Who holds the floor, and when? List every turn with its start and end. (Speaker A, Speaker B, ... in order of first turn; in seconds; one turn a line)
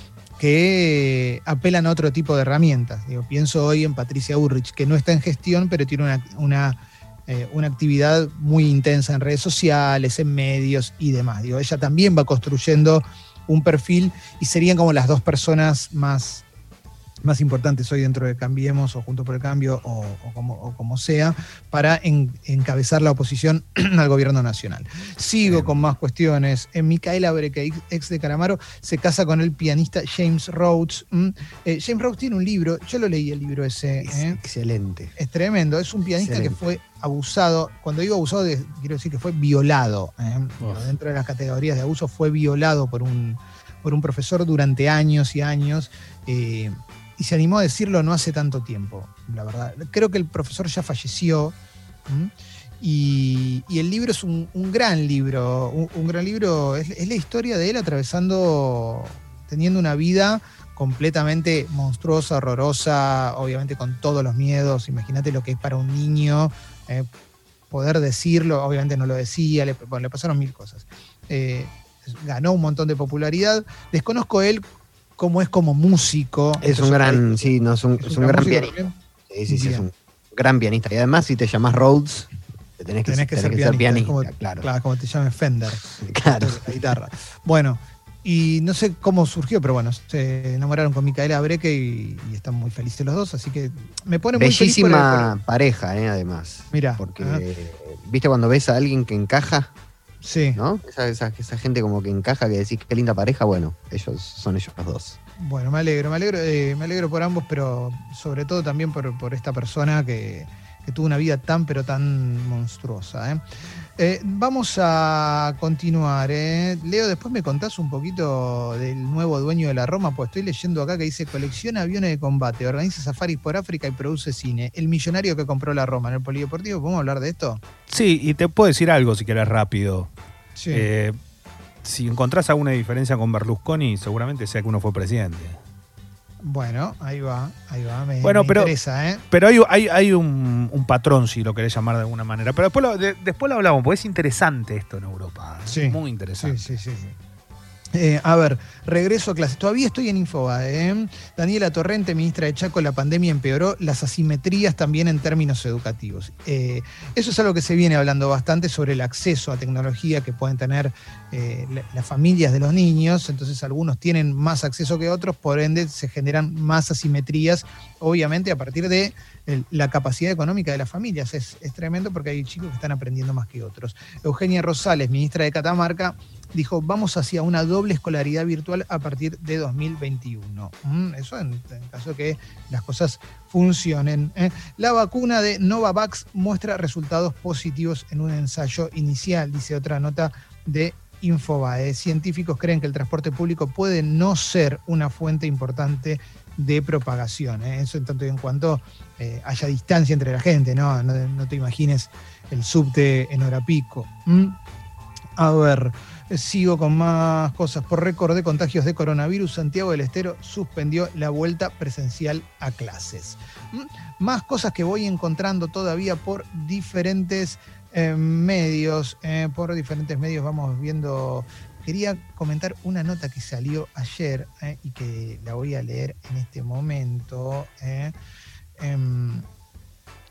Speaker A: 0.4-16.4
Speaker A: 17.2-34.4
Speaker B: 25.4-25.8
Speaker B: 34.0-35.1
Speaker A: 35.2-51.5
Speaker B: 36.2-36.7
Speaker A: 52.1-67.1
Speaker A: 67.7-78.9
Speaker B: 76.6-84.7
Speaker A: 79.5-79.8
Speaker A: 83.0-95.3
Speaker B: 85.8-86.9
Speaker B: 94.3-99.7
Speaker A: 96.7-97.4
Speaker A: 100.2-100.6
Speaker B: 100.5-105.2
Speaker A: 105.4-113.4
Speaker A: 114.0-127.6
Speaker C: 127.9-130.1
Speaker A: 130.6-130.9
Speaker C: 130.7-131.2
Speaker C: 131.8-135.6
Speaker A: 136.4-139.2
Speaker C: 138.2-138.7
Speaker C: 139.3-146.7
Speaker A: 145.7-147.1
Speaker A: 147.9-204.6
Speaker A: 205.3-228.1
Speaker A: 228.8-229.4